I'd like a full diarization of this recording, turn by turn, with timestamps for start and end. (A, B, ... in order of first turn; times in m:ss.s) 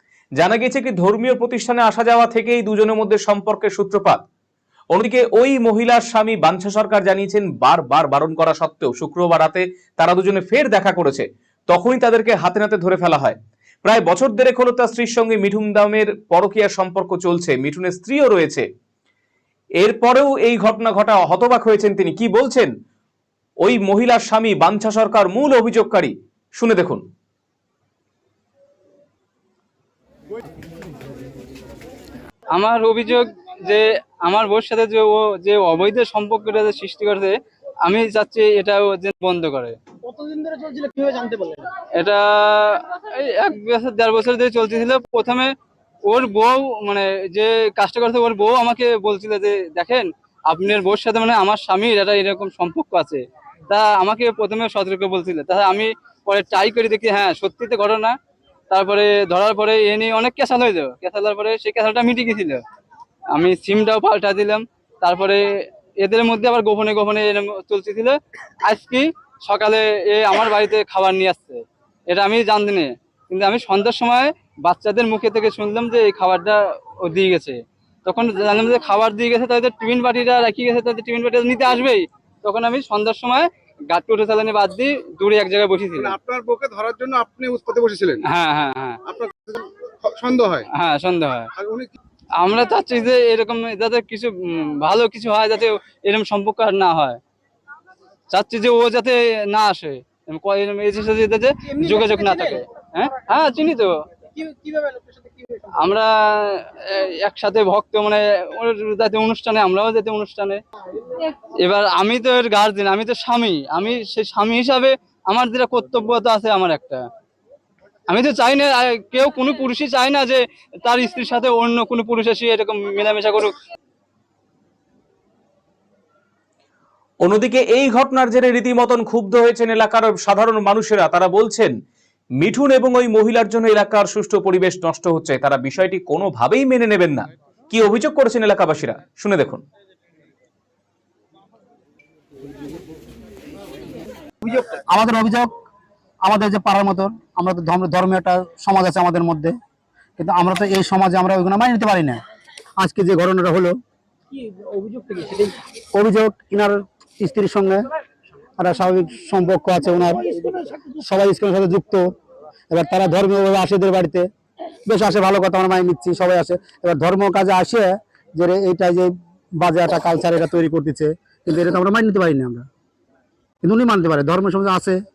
0:00.4-0:04.2 A
0:04.9-0:18.6 A
0:19.8-0:22.7 A
0:23.6-0:27.0 A
0:32.5-0:39.8 B
0:40.2-0:41.6 C
0:41.9-0:45.5 B
0:46.0-0:58.2 B
0:58.7-1:02.6 B
1:03.3-1:05.5 B
1:06.0-1:26.1 B
1:26.0-1:28.2 D
1:28.2-1:29.0 B
1:29.0-1:30.6 D
1:30.7-1:31.5 B
1:31.6-1:31.9 D
1:32.4-1:37.2 B
1:38.3-1:43.9 B
1:41.8-1:42.5 C
1:44.4-1:45.0 C
1:45.7-1:50.6 B
1:51.5-1:57.0 B
1:58.1-2:03.6 B
2:07.2-2:11.7 A
2:12.4-2:19.6 A
2:24.9-2:25.5 E
2:26.2-2:29.6 E
2:30.2-2:32.2 E
2:32.8-2:33.8 E
2:34.8-2:35.5 C
2:35.9-2:37.8 E
2:38.6-2:40.3 E
2:41.0-2:42.1 E
2:42.7-2:44.3 E
2:44.8-2:52.7 E
2:53.6-2:55.0 E